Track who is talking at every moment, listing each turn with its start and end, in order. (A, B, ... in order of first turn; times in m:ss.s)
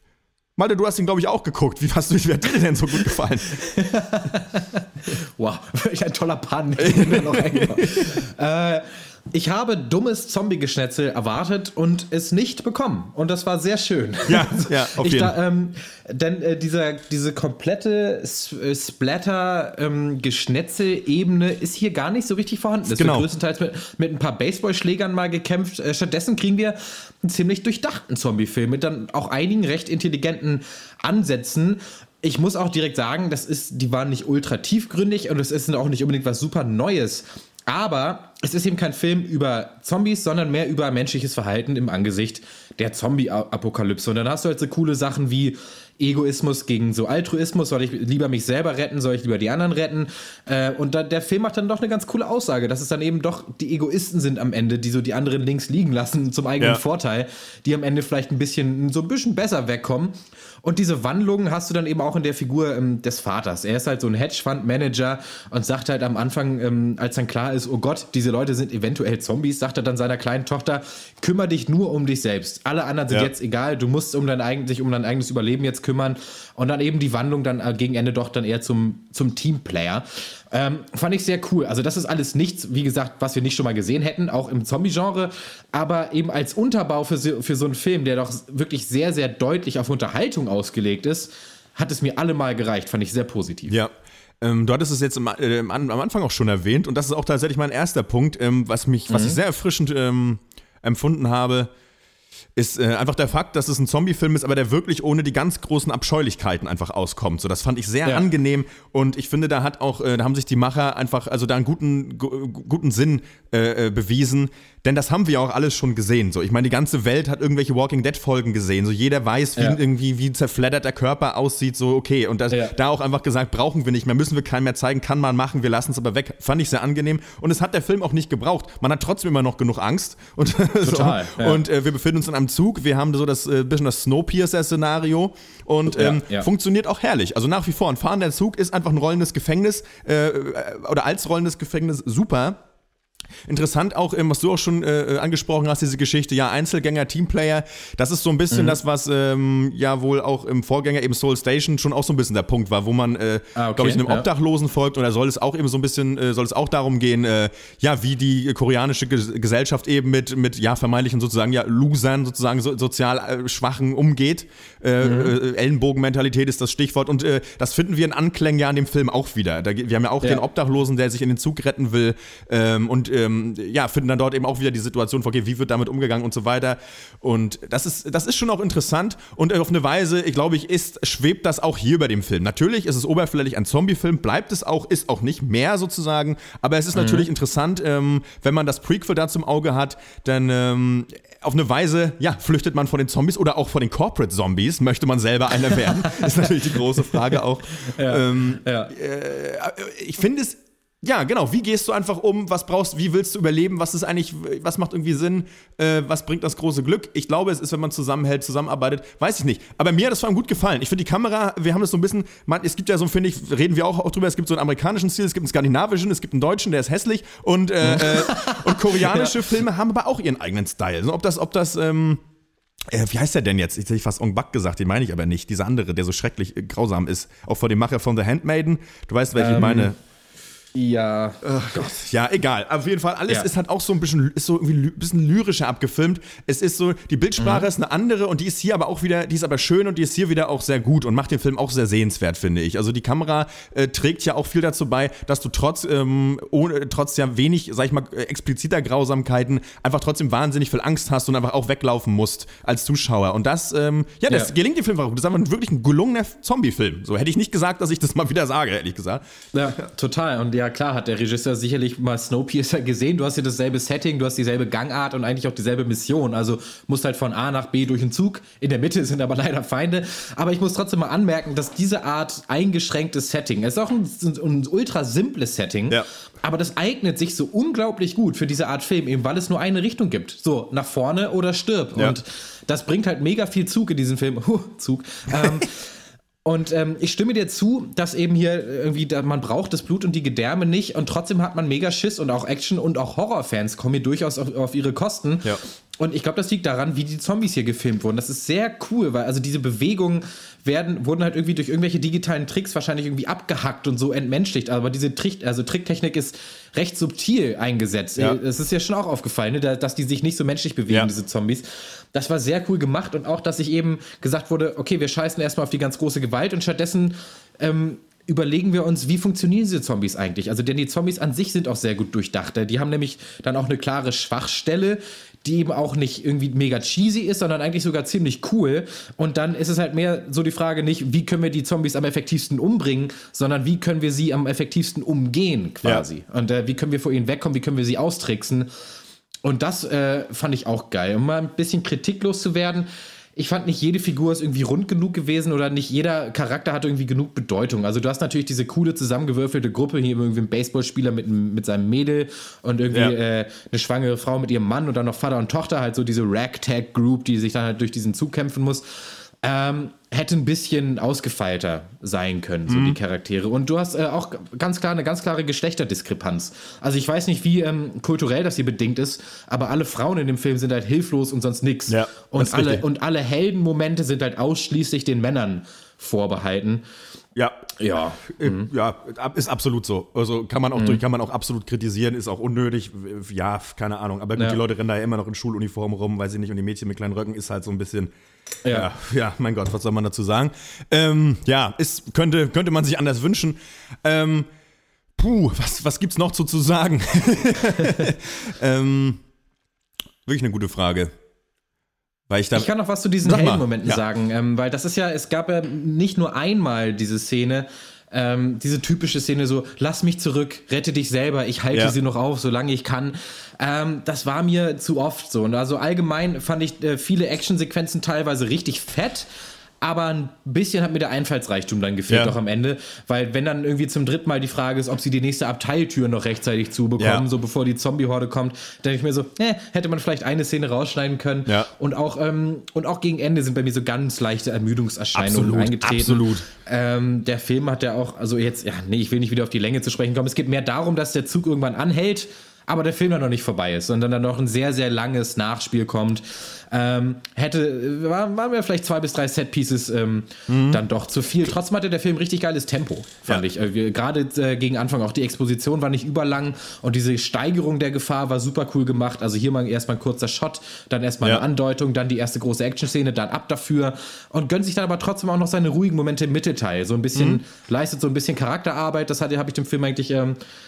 0:00.6-0:03.6 A
0:03.6-1:33.8 B
0:06.8-0:08.1 A
0:14.3-0:15.4 A
0:22.9-0:23.3 A
1:33.7-1:41.7 A
1:39.1-1:39.4 B
1:42.6-2:22.6 A
2:02.5-2:02.8 B
2:10.8-2:11.6 B
2:15.9-2:16.5 B
2:23.5-3:42.2 A
2:28.5-2:28.8 B
2:33.6-2:34.3 B
2:45.0-2:45.3 B
3:07.0-3:07.3 B
3:16.0-3:16.5 B
3:17.9-3:18.9 B
3:37.8-3:39.4 B
3:42.9-3:50.0 A
3:49.4-3:49.9 B
3:50.8-3:51.9 B
3:51.4-4:19.2 A
3:57.4-3:57.7 B
4:14.3-4:14.5 B
4:19.5-4:45.8 B
4:45.4-4:45.6 A
4:46.4-5:38.7 B
5:39.4-6:16.8 B
6:02.7-6:03.0 A
6:11.9-6:12.8 A
6:17.4-6:17.7 A
6:17.8-6:18.7 B
6:18.2-6:28.1 A
6:20.8-6:21.0 B
6:28.6-6:28.9 B
6:28.7-6:34.5 A
6:35.2-6:39.2 A
6:40.3-6:41.1 A
6:42.3-6:42.7 A
6:42.6-6:59.3 B
6:43.2-6:44.0 A
6:59.8-7:50.4 B
7:02.1-7:02.4 A
7:07.0-7:07.2 A
7:15.1-7:16.4 A
7:30.5-7:30.8 A
7:47.2-7:47.4 A